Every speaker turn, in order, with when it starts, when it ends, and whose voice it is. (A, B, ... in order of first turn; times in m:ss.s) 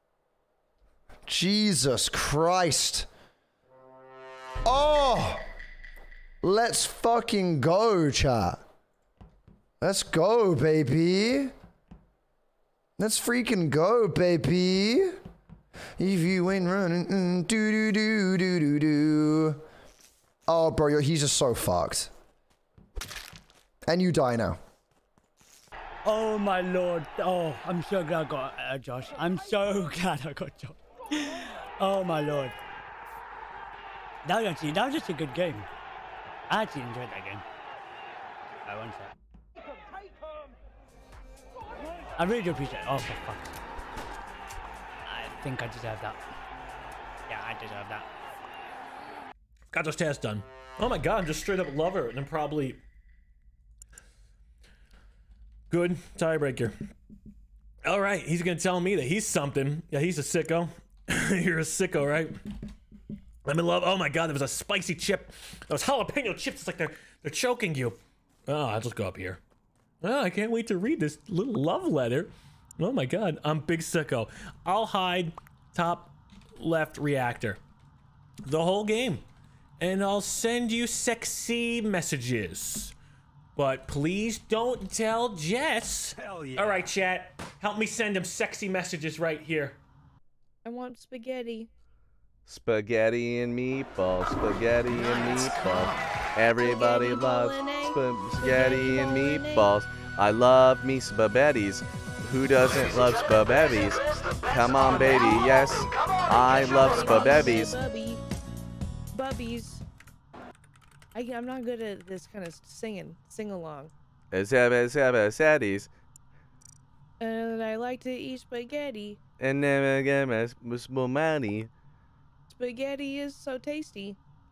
0:01.3-0:03.1 A
0:04.6-0:05.4 A
0:06.4-0:08.6 A
0:09.8-0:11.5 A
0:13.0-0:15.2 A
0:16.0-0:19.6 A
0:20.5-0:22.1 A
0:23.9-0:24.6 A
0:26.0-0:32.6 B
0:34.2-0:35.7 B
0:36.5-0:37.4 B
0:38.6-0:39.1 B
0:42.2-0:43.6 B
0:45.0-0:46.2 B
0:47.3-0:48.1 B
0:49.7-0:52.8 C
0:55.7-0:56.7 C
0:57.8-1:02.3 C
1:03.4-1:09.4 C
1:10.0-1:17.6 C
1:18.4-1:19.2 C
1:19.8-1:22.9 C
1:23.6-1:29.8 C
1:26.2-1:26.9 B
1:30.6-1:31.7 D
1:32.5-1:47.8 E
1:36.5-1:39.7 D
1:44.8-1:45.6 D
1:46.4-1:48.2 D
1:49.1-1:49.8 D
1:51.1-1:53.9 D
1:54.3-1:55.9 E
1:57.2-1:59.2 D
1:59.4-2:01.7 E
2:02.5-2:04.2 D